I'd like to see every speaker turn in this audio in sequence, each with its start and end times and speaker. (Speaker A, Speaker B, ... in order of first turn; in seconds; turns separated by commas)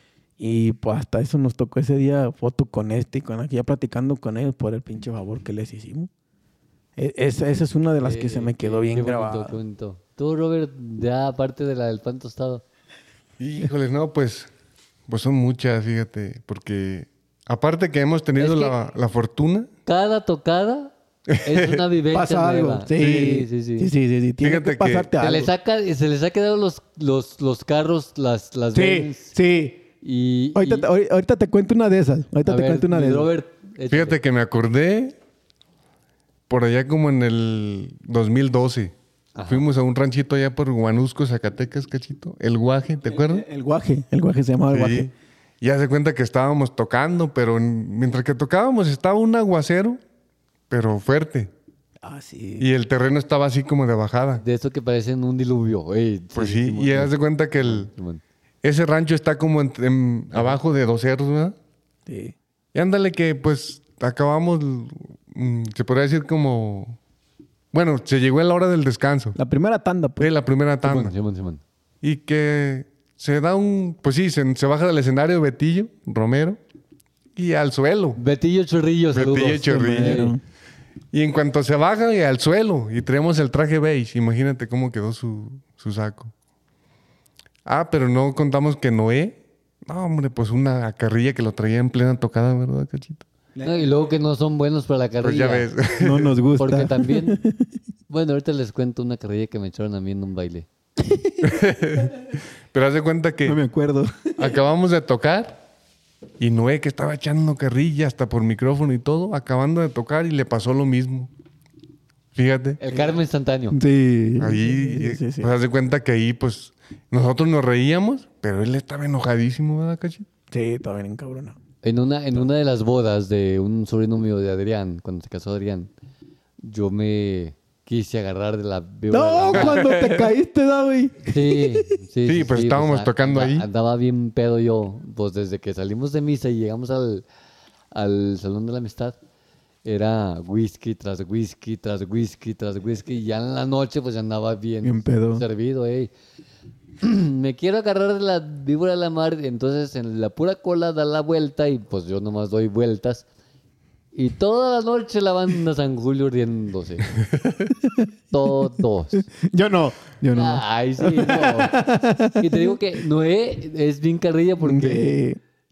Speaker A: 0.4-6.1, Speaker A: 7.0-9.6, Speaker B: 8.0-12.6, Speaker C: 13.4-14.5, Speaker C: 15.1-19.7, Speaker B: 18.4-18.7, Speaker B: 19.9-23.9, Speaker C: 21.3-21.8, Speaker A: 22.1-25.5, Speaker C: 22.9-23.4, Speaker C: 24.4-25.1, Speaker B: 25.2-29.3, Speaker A: 28.7-29.8, Speaker B: 30.0-30.9, Speaker A: 30.6-33.3, Speaker B: 32.5-34.2, Speaker C: 33.9-35.1, Speaker C: 36.5-38.9, Speaker B: 39.4-39.7, Speaker C: 39.5-43.5, Speaker A: 43.1-45.1, Speaker C: 44.7-45.1, Speaker C: 45.6-50.0, Speaker C: 50.7-51.5, Speaker A: 52.0-52.7, Speaker C: 52.6-54.4, Speaker B: 54.4-58.2, Speaker C: 56.4-57.9, Speaker C: 58.6-61.5, Speaker A: 62.1-62.4, Speaker C: 62.7-67.0, Speaker C: 67.7-69.4, Speaker A: 69.4-70.3, Speaker C: 70.2-71.1, Speaker B: 70.8-71.6, Speaker C: 72.0-76.6, Speaker C: 77.4-78.2, Speaker B: 78.2-80.3, Speaker C: 79.1-80.3, Speaker A: 79.6-80.4, Speaker C: 81.1-86.3, Speaker C: 87.7-93.3, Speaker A: 93.6-93.9, Speaker B: 93.6-95.7, Speaker C: 95.2-96.3, Speaker A: 96.0-97.7, Speaker B: 96.6-97.4, Speaker B: 98.1-100.7, Speaker A: 101.0-101.5, Speaker C: 101.4-103.6, Speaker A: 103.5-104.5, Speaker C: 104.4-105.6, Speaker C: 106.4-111.3, Speaker C: 112.3-112.8, Speaker B: 112.8-113.8, Speaker A: 112.9-113.2, Speaker A: 113.7-115.5, Speaker C: 114.4-120.3, Speaker A: 120.5-121.6, Speaker B: 121.8-125.9, Speaker B: 126.6-129.8, Speaker A: 129.1-131.8, Speaker C: 129.5-130.2, Speaker B: 131.3-137.2, Speaker C: 132.3-133.7, Speaker B: 137.9-139.2, Speaker B: 139.8-146.1, Speaker A: 144.8-145.4, Speaker B: 147.0-153.2, Speaker B: 154.1-157.1, Speaker A: 157.8-158.1, Speaker B: 158.3-159.2, Speaker A: 159.3-162.8, Speaker B: 160.3-161.8, Speaker B: 162.4-165.1, Speaker A: 164.6-165.4